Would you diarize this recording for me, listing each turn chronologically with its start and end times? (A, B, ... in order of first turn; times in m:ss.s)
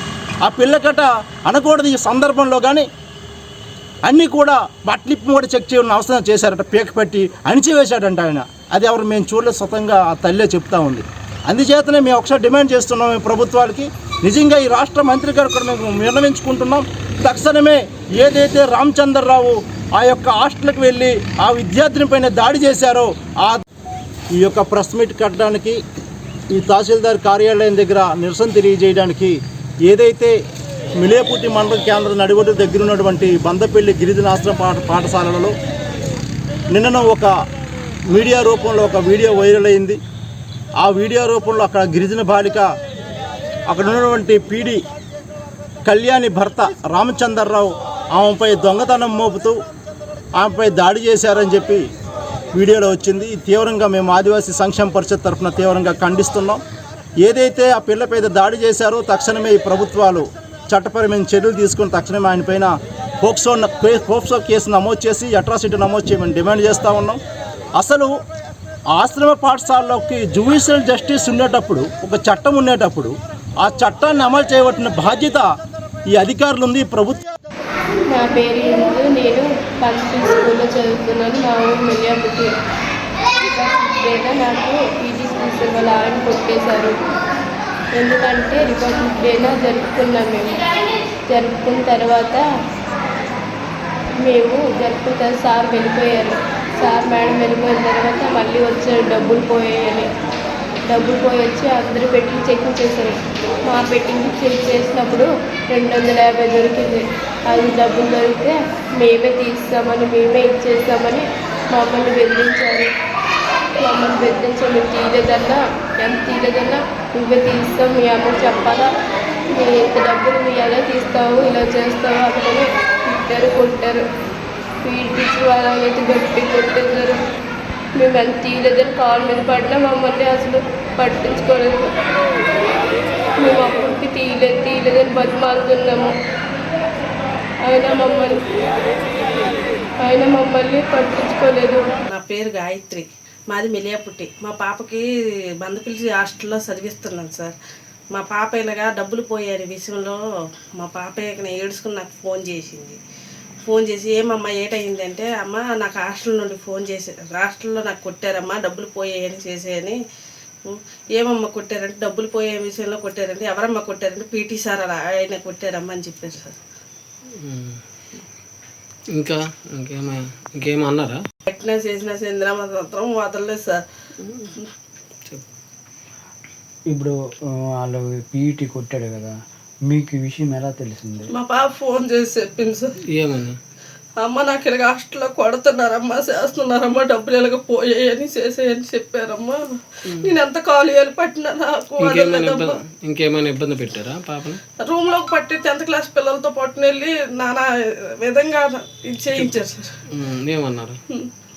0:00.4-0:02.9 A
0:04.1-0:23.6 A
0:24.4-0:25.8 A
0:26.6-0:30.3 A
0:31.0-0:35.6 A
0:36.7-0:37.3 A
0:38.1-0:40.0 A
0:40.8-0:42.6 A
0:43.7-0:44.8 A
0:45.9-0:49.5 A
0:50.4-0:51.8 A
0:52.6-0:56.6 A
0:57.2-1:02.7 A
1:03.2-1:07.2 A
1:07.8-1:08.1 A
1:09.0-1:15.5 A
1:16.1-1:17.2 A
1:18.1-1:22.5 B
1:23.4-1:27.0 B
1:28.0-1:30.6 B
1:31.3-1:32.4 B
1:34.2-1:40.1 B
1:40.9-1:52.9 B
1:53.8-1:58.9 B
1:59.5-2:04.0 B
2:04.8-2:07.2 B
2:08.0-2:11.9 B
2:13.4-2:16.1 B
2:17.7-2:18.6 B
2:20.0-2:21.9 B
2:22.1-2:25.1 C
2:25.6-2:27.6 C
2:28.1-2:30.2 C
2:30.8-2:33.0 C
2:33.6-2:40.0 C
2:40.7-2:46.6 C
2:47.4-2:47.8 D
2:49.2-2:51.2 D
2:51.5-2:53.8 C
2:57.8-2:59.4 E
2:59.9-3:01.3 E
3:01.3-3:02.9 C
3:03.1-3:03.6 D
3:04.2-3:09.6 C
3:10.2-3:12.8 C
3:12.0-3:14.6 D
3:14.8-3:17.7 C
3:18.2-3:19.9 C
3:19.3-3:21.0 D